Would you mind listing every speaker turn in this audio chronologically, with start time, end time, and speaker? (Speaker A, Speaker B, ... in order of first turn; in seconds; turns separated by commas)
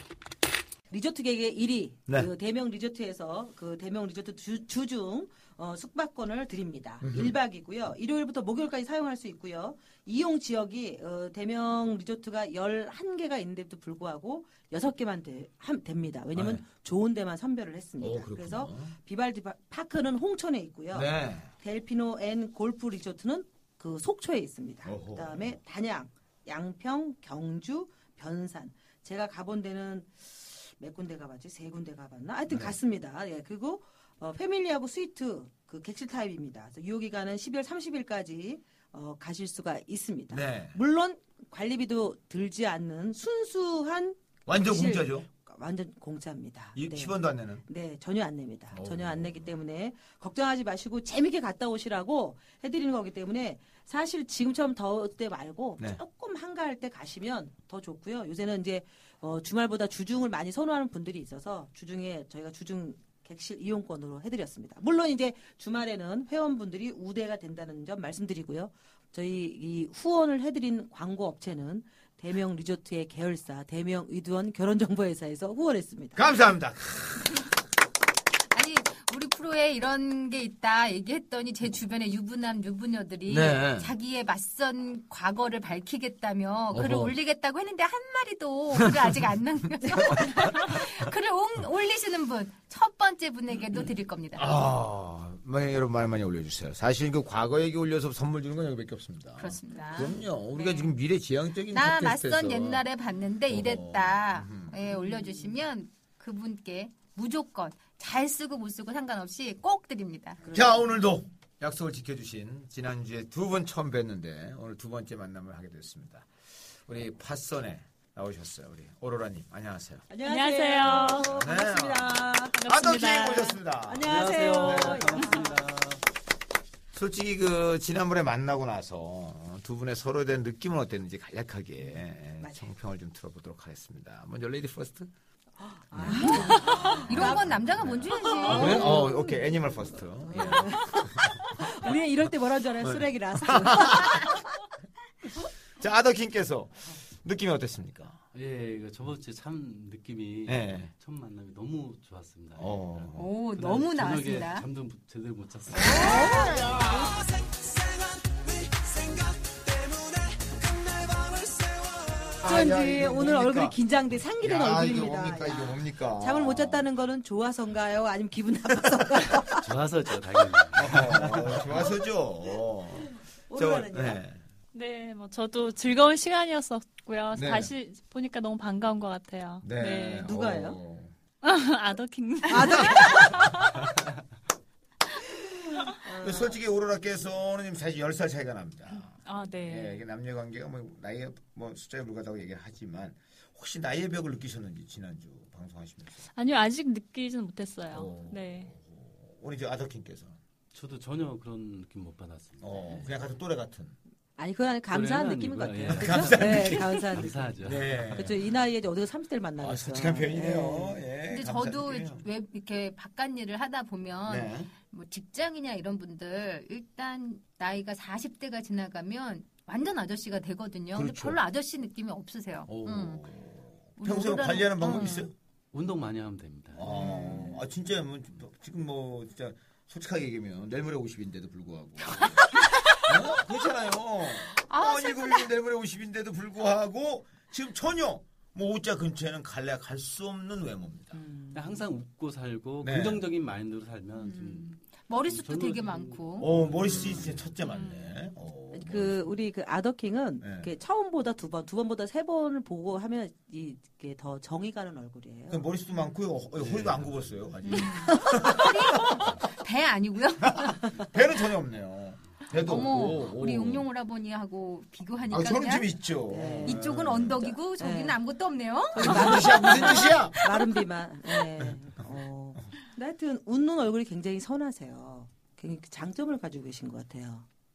Speaker A: 0.9-76.2, Speaker B: 7.0-7.3, Speaker B: 16.3-16.6, Speaker B: 18.0-18.9, Speaker B: 20.9-21.5, Speaker B: 24.9-25.6, Speaker B: 32.5-32.8, Speaker B: 40.3-40.8, Speaker B: 44.5-45.3, Speaker B: 46.8-47.6, Speaker B: 48.7-49.5, Speaker B: 76.2-77.5, Speaker C: 78.5-94.5, Speaker B: 83.3-83.9, Speaker B: 86.7-87.2, Speaker B: 88.7-89.2, Speaker B: 90.1-90.8, Speaker B: 94.4-102.8, Speaker C: 99.4-100.9, Speaker A: 99.7-100.2, Speaker C: 101.7-110.4, Speaker B: 103.5-105.1, Speaker A: 105.2-105.5, Speaker A: 110.4-111.0, Speaker B: 110.5-116.3, Speaker B: 116.9-120.0, Speaker A: 120.1-122.6, Speaker D: 120.2-121.3, Speaker B: 120.9-125.2, Speaker D: 122.6-123.6, Speaker A: 123.9-125.6, Speaker E: 124.0-126.0, Speaker B: 126.9-135.1, Speaker A: 132.4-132.7, Speaker A: 135.6-137.5, Speaker B: 135.9-144.3, Speaker C: 136.2-139.1, Speaker A: 138.1-144.3, Speaker B: 145.8-148.2, Speaker E: 148.3-156.5, Speaker B: 150.5-150.9, Speaker B: 152.6-153.3, Speaker C: 153.2-154.7, Speaker C: 155.7-156.8, Speaker A: 156.0-156.7, Speaker B: 156.2-157.1, Speaker B: 162.4-163.8, Speaker A: 162.4-169.7, Speaker B: 164.4-166.9, Speaker E: 169.5-171.9, Speaker B: 170.7-174.4, Speaker A: 173.5-174.2, Speaker D: 174.7-180.3, Speaker B: 177.3-177.7, Speaker B: 179.6-181.1, Speaker A: 180.2-180.8, Speaker D: 181.4-183.7, Speaker A: 182.5-183.4, Speaker B: 182.9-183.4, Speaker A: 185.9-186.6, Speaker B: 186.2-196.3, Speaker D: 189.2-190.0, Speaker D: 196.4-198.7, Speaker B: 197.9-200.4, Speaker E: 200.7-203.2, Speaker B: 202.6-203.9, Speaker A: 204.4-207.4, Speaker E: 204.9-207.9, Speaker B: 205.9-208.5, Speaker A: 208.1-211.0, Speaker B: 209.6-212.3, Speaker C: 211.3-223.2, Speaker B: 214.3-214.7, Speaker B: 220.9-221.4, Speaker B: 222.7-225.3, Speaker C: 224.0-225.3, Speaker D: 224.9-225.2, Speaker E: 225.7-227.0, Speaker B: 226.8-241.2, Speaker C: 226.9-227.6, Speaker A: 227.0-227.6, Speaker C: 234.6-235.5, Speaker A: 241.1-241.8, Speaker E: 241.5-247.5, Speaker B: 242.8-243.2, Speaker C: 244.2-246.5, Speaker B: 246.4-249.2, Speaker D: 247.6-248.1, Speaker A: 248.7-255.6, Speaker B: 250.4-250.7, Speaker B: 255.5-259.4, Speaker E: 256.6-257.6, Speaker D: 257.6-258.2, Speaker C: 258.3-260.8, Speaker B: 260.4-263.9, Speaker C: 262.5-265.9, Speaker B: 265.3-267.6, Speaker A: 266.3-266.9, Speaker C: 266.6-270.3, Speaker A: 267.8-268.2, Speaker A: 268.9-277.5, Speaker B: 269.0-270.4, Speaker B: 271.6-272.1